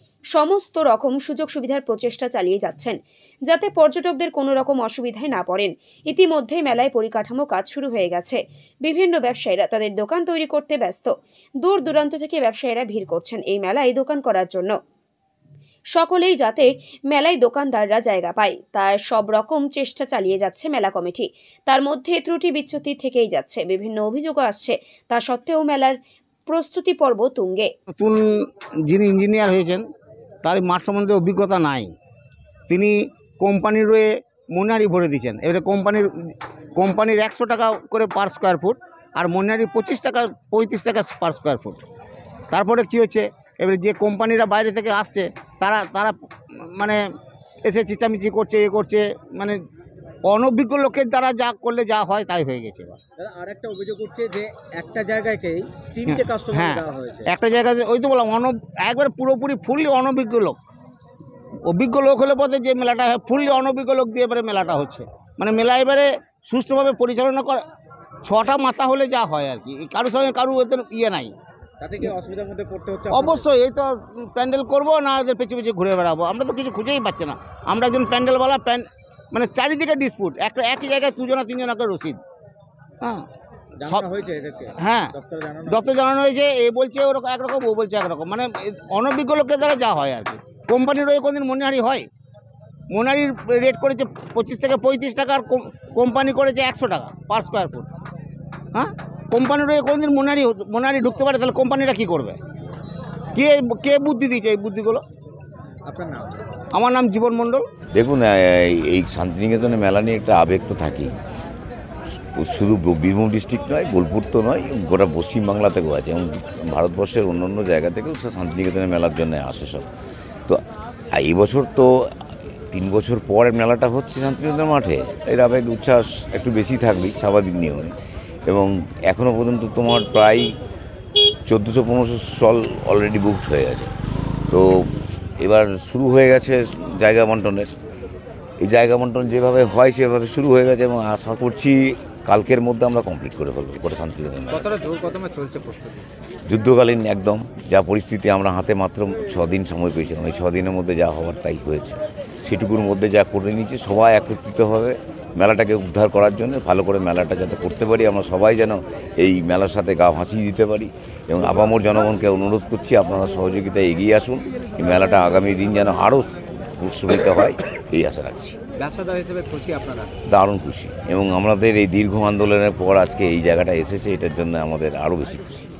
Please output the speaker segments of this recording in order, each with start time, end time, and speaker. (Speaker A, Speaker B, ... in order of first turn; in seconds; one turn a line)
Speaker A: 0.3-3.0
Speaker A: 3.5-11.1
Speaker A: 11.6-14.7
Speaker A: 15.9-26.0
Speaker A: 26.5-27.7
Speaker B: 28.0-29.8
Speaker B: 30.4-31.9
Speaker B: 32.7-41.8
Speaker B: 42.5-46.1
Speaker B: 46.7-47.0
Speaker B: 47.6-49.6
Speaker B: 50.2-53.0
Speaker C: 53.2-57.3
Speaker B: 56.0-60.6
Speaker B: 61.7-67.6
Speaker B: 68.2-71.3
Speaker C: 71.8-73.5
Speaker B: 73.1-82.2
Speaker C: 83.8-85.8
Speaker B: 84.8-85.1
Speaker B: 85.7-92.1
Speaker B: 92.9-97.9
Speaker B: 98.7-102.4
Speaker B: 103.3-105.0
Speaker C: 105.8-106.4
Speaker B: 106.7-107.7
Speaker D: 107.9-111.1
Speaker D: 112.3-119.9
Speaker D: 121.1-121.9
Speaker D: 122.7-127.9
Speaker D: 128.5-130.5
Speaker D: 131.4-133.9
Speaker D: 134.5-134.9
Speaker D: 135.4-137.7
Speaker D: 138.6-144.7
Speaker C: 144.5-146.0
Speaker D: 146.4-168.6
Speaker C: 168.8-170.1
Speaker D: 170.3-175.7